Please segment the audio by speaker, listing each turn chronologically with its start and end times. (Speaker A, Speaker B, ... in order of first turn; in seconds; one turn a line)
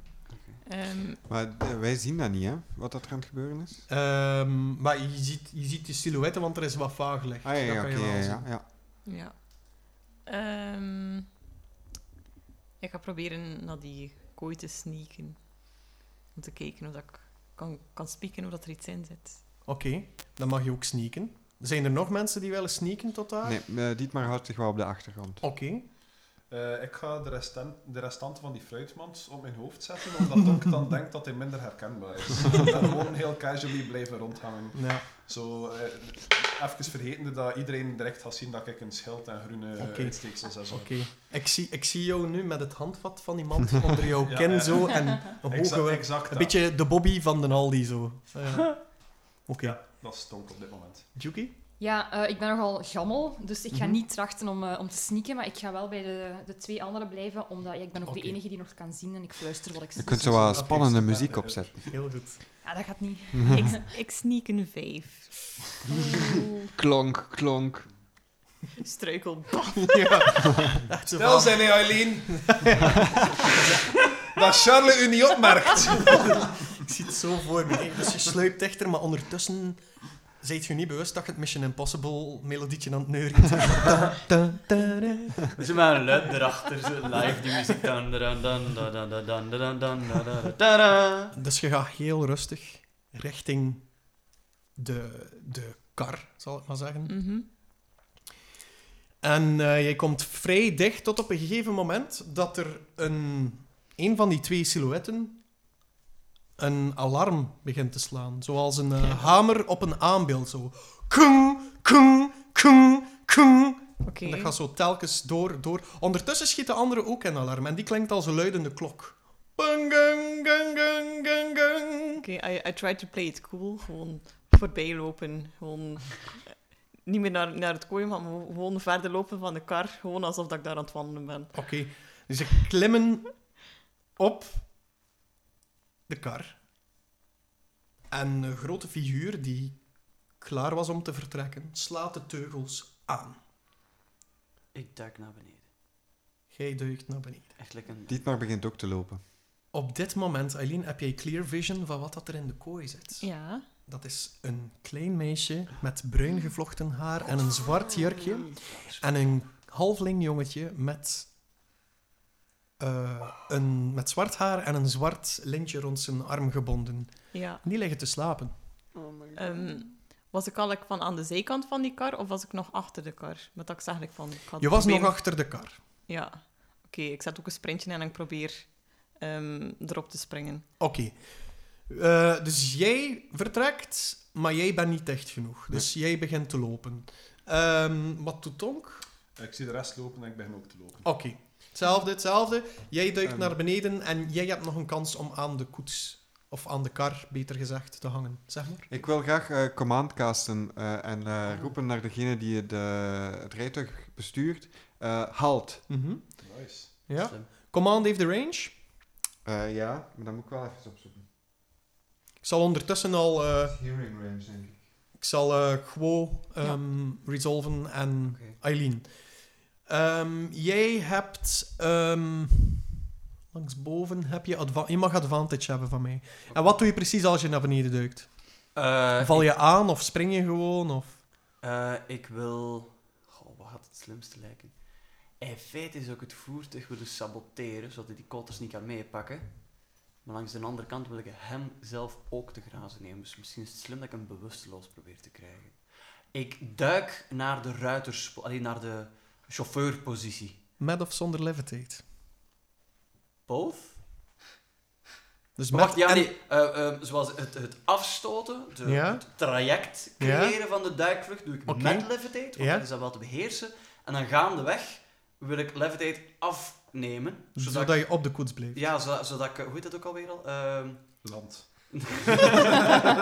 Speaker A: 0.3-0.6
Speaker B: 0.6-1.2
Speaker C: 1.3-3.9
Speaker D: 3.9-8.5
Speaker C: 7.4-8.6
Speaker B: 9.1-11.3
Speaker B: 12.8-19.5
Speaker D: 19.6-23.6
Speaker C: 23.4-25.4
Speaker D: 25.4-25.9
Speaker E: 26.5-41.1
Speaker D: 34.8-35.0
Speaker D: 39.8-49.8
Speaker E: 44.2-46.5
Speaker E: 49.6-51.1
Speaker D: 51.2-51.6
Speaker F: 51.8-60.2
Speaker D: 58.1-58.4
Speaker C: 60.0-61.8
Speaker D: 60.1-62.4
Speaker E: 61.3-61.7
Speaker F: 62.6-63.9
Speaker C: 63.3-63.8
Speaker B: 63.4-65.5
Speaker C: 66.8-67.9
Speaker B: 68.8-70.3
Speaker D: 69.8-74.0
Speaker E: 71.2-73.0
Speaker E: 73.9-76.5
Speaker D: 76.8-85.5
Speaker A: 85.5-91.3
Speaker D: 91.3-94.0
Speaker D: 94.8-97.1
Speaker B: 97.1-97.5
Speaker D: 99.2-105.5
Speaker D: 106.6-122.2
Speaker B: 114.0-114.5
Speaker B: 122.2-131.5
Speaker D: 131.5-133.5
Speaker D: 134.2-134.7
Speaker D: 136.1-136.6
Speaker D: 138.1-139.8
Speaker D: 140.4-143.4
Speaker A: 144.7-145.7
Speaker D: 146.5-147.5
Speaker A: 147.6-148.2
Speaker C: 148.1-149.2
Speaker D: 149.7-153.3
Speaker B: 153.2-153.7
Speaker D: 153.8-161.3
Speaker D: 162.8-168.5
Speaker B: 167.3-167.6
Speaker C: 168.9-169.8
Speaker B: 169.3-175.3
Speaker D: 174.6-175.8
Speaker B: 176.1-180.7
Speaker D: 180.8-181.2
Speaker D: 181.8-189.0
Speaker E: 189.4-191.1
Speaker D: 191.0-198.9
Speaker C: 193.2-193.6
Speaker C: 198.9-205.9
Speaker D: 205.9-206.4
Speaker E: 206.4-206.9
Speaker D: 206.9-208.8
Speaker A: 207.2-207.5
Speaker C: 209.4-211.3
Speaker D: 212.4-213.8
Speaker C: 213.7-214.8
Speaker D: 215.2-219.1
Speaker A: 218.3-218.6
Speaker D: 219.8-222.9
Speaker D: 223.5-231.2
Speaker A: 228.7-229.5
Speaker A: 231.6-234.8
Speaker A: 235.4-245.8
Speaker A: 246.3-250.6
Speaker D: 250.8-252.0
Speaker A: 253.5-254.0
Speaker D: 255.6-256.3
Speaker A: 255.7-271.3
Speaker D: 258.9-259.2
Speaker D: 260.2-260.6
Speaker D: 261.7-262.9
Speaker D: 267.6-268.8
Speaker E: 271.2-272.1
Speaker A: 271.9-273.0